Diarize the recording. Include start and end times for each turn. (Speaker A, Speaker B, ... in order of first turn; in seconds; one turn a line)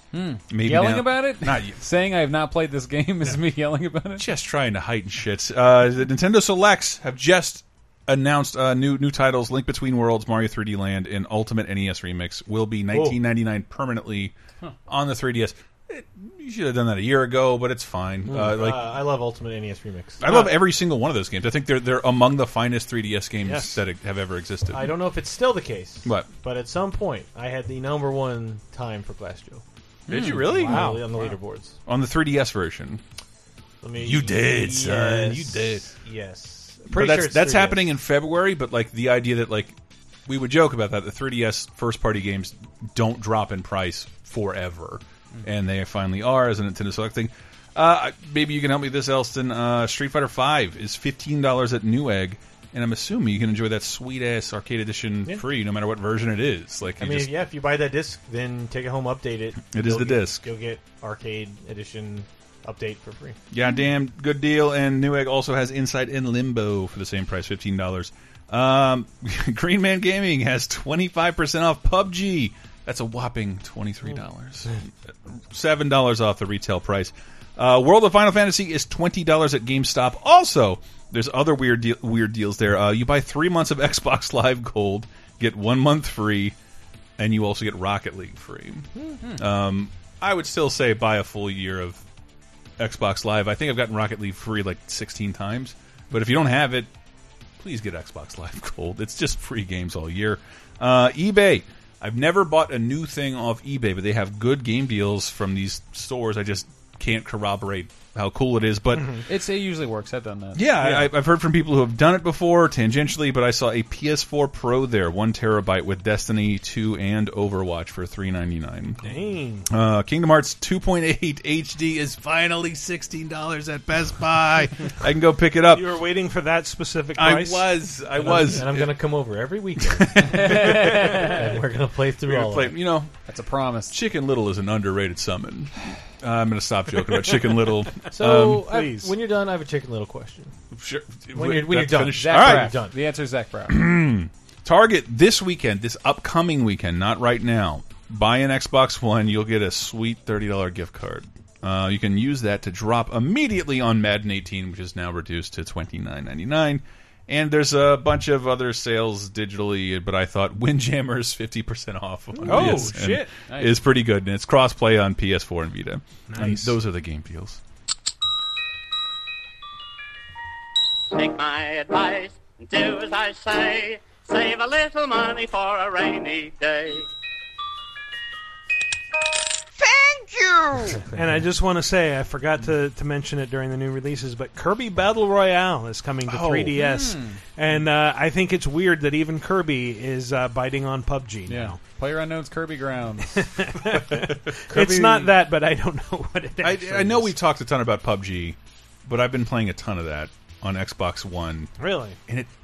Speaker A: 0.1-4.3
Speaker B: 0.5-1.8
Speaker B: 4.2-14.3
Speaker C: 12.9-13.2
Speaker B: 14.9-18.9
Speaker C: 18.3-20.2
Speaker B: 20.2-24.9
Speaker D: 20.3-20.5
Speaker D: 23.4-23.8
Speaker C: 24.7-29.6
Speaker B: 30.1-31.1
Speaker A: 30.1-30.4
Speaker C: 30.4-31.8
Speaker D: 30.6-31.2
Speaker B: 31.9-33.0
Speaker C: 33.8-37.9
Speaker B: 34.0-35.9
Speaker B: 36.9-39.8
Speaker B: 40.3-57.3
Speaker C: 57.0-63.4
Speaker B: 59.7-60.4
Speaker B: 63.5-74.8
Speaker B: 75.5-86.6
Speaker B: 87.2-92.0
Speaker B: 92.8-96.9
Speaker B: 97.6-109.2
Speaker A: 109.3-110.6
Speaker B: 110.5-119.1
Speaker D: 110.8-111.1
Speaker D: 119.0-119.7
Speaker B: 119.7-125.9
Speaker D: 125.7-127.8
Speaker B: 127.2-129.0
Speaker C: 128.2-132.8
Speaker B: 129.9-131.0
Speaker A: 130.3-131.3
Speaker B: 132.3-133.1
Speaker A: 133.3-133.9
Speaker B: 133.9-138.7
Speaker C: 138.1-140.5
Speaker D: 138.7-139.1
Speaker B: 140.7-142.8
Speaker C: 141.3-142.9
Speaker A: 142.1-143.9
Speaker B: 143.7-167.6
Speaker D: 162.3-163.3
Speaker A: 162.5-162.9
Speaker A: 163.5-163.8
Speaker D: 166.3-166.8
Speaker E: 171.1-177.1
Speaker D: 181.1-191.8
Speaker B: 186.3-186.7
Speaker A: 186.7-187.4
Speaker A: 191.5-193.5
Speaker D: 193.4-197.4
Speaker B: 196.6-201.7
Speaker D: 201.8-202.2